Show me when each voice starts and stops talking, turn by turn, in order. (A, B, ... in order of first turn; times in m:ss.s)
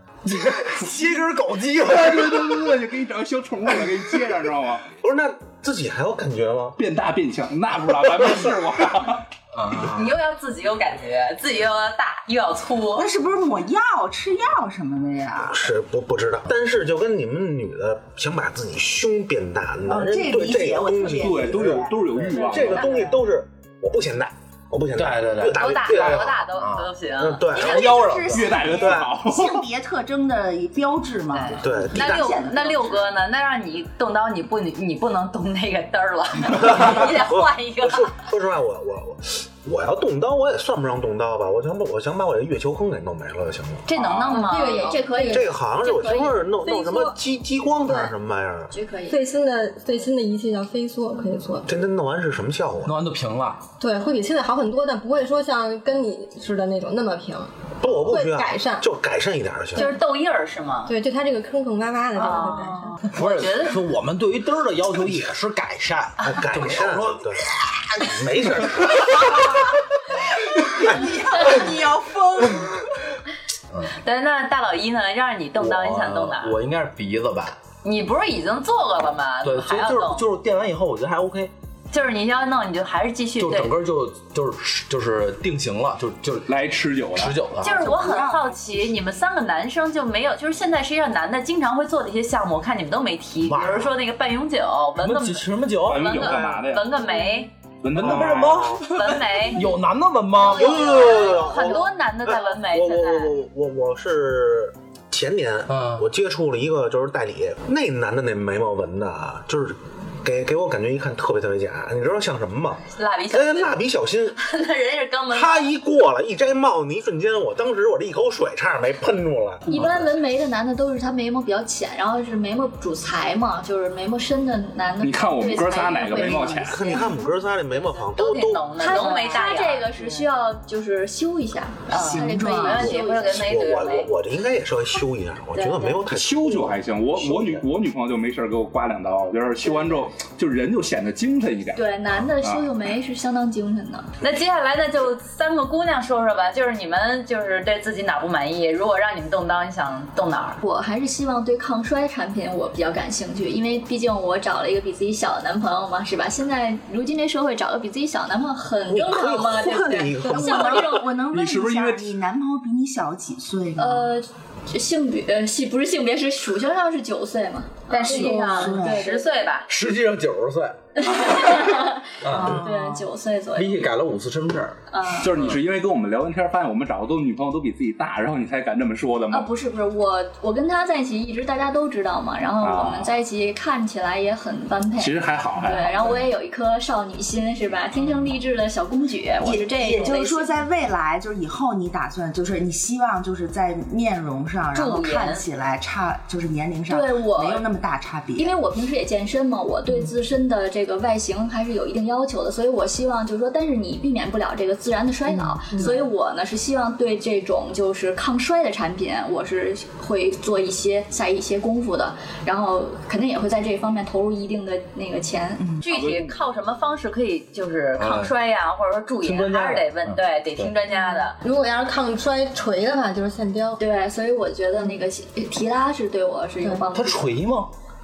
0:00.2-0:02.6 A
0:01.9-0:04.9 B
0:05.0-0:06.8 C
0:06.8-0:09.2 B
0:09.5-0:10.1 A
0:09.8-0:13.1 D
0:13.0-0:15.7 E
0:15.4-0:26.4 C
0:19.8-0:23.2 E
0:21.2-0:22.9 B
0:22.7-0:23.1 D
0:24.9-0:26.9 A
0:25.5-0:27.5 D
0:27.2-0:28.1 C
0:27.5-0:33.1 E
0:27.5-0:28.6 A
0:28.3-0:29.6 B
0:28.7-0:29.1 C
0:31.3-0:38.2 D
0:31.6-0:32.2 C
0:36.6-0:43.9 C
0:43.8-0:45.0 D
0:44.0-0:44.3 B
0:44.3-0:46.5 F
0:44.3-0:45.5 G
0:45.3-0:48.7 C
0:46.6-0:47.2 G
0:47.8-0:48.1 G
0:48.7-0:49.2 F
0:49.1-0:51.7 G
0:51.7-0:53.0 C
0:52.8-0:53.6 A
0:53.8-0:58.8 G
0:57.8-0:59.9 C
0:59.8-1:00.9 D
1:00.8-1:03.0 G
1:02.2-1:03.8 D
1:03.1-1:08.8 A
1:06.2-1:07.5 C
1:08.0-1:09.5 C
1:10.5-1:13.0 E
1:14.0-1:16.6 D
1:15.6-1:17.6 A
1:17.8-1:20.2 D
1:19.4-1:21.5 A
1:21.9-1:23.7 D
1:23.4-1:26.5 A
1:26.5-1:27.4 B
1:27.1-1:27.8 A
1:27.6-1:29.0 E
1:27.6-1:37.5 D
1:33.4-1:33.9 A
1:35.0-1:36.1 A
1:35.8-1:36.9 B
1:36.2-1:36.6 C
1:37.8-1:38.8 B
1:37.9-1:40.8 A
1:38.0-1:38.8 C
1:38.7-1:39.6 D
1:40.4-1:54.4 C
1:40.4-1:43.3 D
1:40.5-1:41.8 F
1:45.7-1:46.1 A
1:52.9-1:53.8 D
1:54.3-1:55.7 D
1:55.3-2:00.0 C
1:59.7-2:07.2 F
2:05.0-2:07.0 B
2:06.2-2:08.9 C
2:08.0-2:10.3 D
2:08.7-2:13.5 F
2:11.9-2:14.1 D
2:11.9-2:12.9 E
2:12.8-2:17.6 C
2:15.5-2:16.1 F
2:16.1-2:22.7 B
2:21.7-2:24.1 F
2:24.2-2:30.6 D
2:30.6-2:41.1 F
2:38.9-2:41.0 C
2:40.2-2:44.1 E
2:41.3-2:42.1 B
2:43.8-2:49.3 F
2:47.9-2:48.8 G
2:48.1-2:49.1 E
2:48.1-2:49.7 D
2:49.7-2:51.2 A
2:51.0-2:53.8 F
2:52.2-2:52.7 A
2:52.3-2:53.0 E
2:53.5-2:54.8 A
2:54.9-2:55.3 F
2:55.2-2:59.5 B
2:59.3-3:10.6 F
3:02.6-3:03.1 B
3:05.0-3:06.2 B
3:09.4-3:18.6 E
3:14.7-3:15.4 D
3:16.9-3:17.7 F
3:18.4-3:35.8 F
3:25.3-3:26.0 G
3:25.7-3:26.0 E
3:35.8-3:41.4 D
3:38.0-3:38.3 A
3:39.2-3:40.7 A
3:41.4-3:43.8 G
3:43.8-3:47.3 F
3:46.6-3:46.8 G
3:46.9-3:47.7 A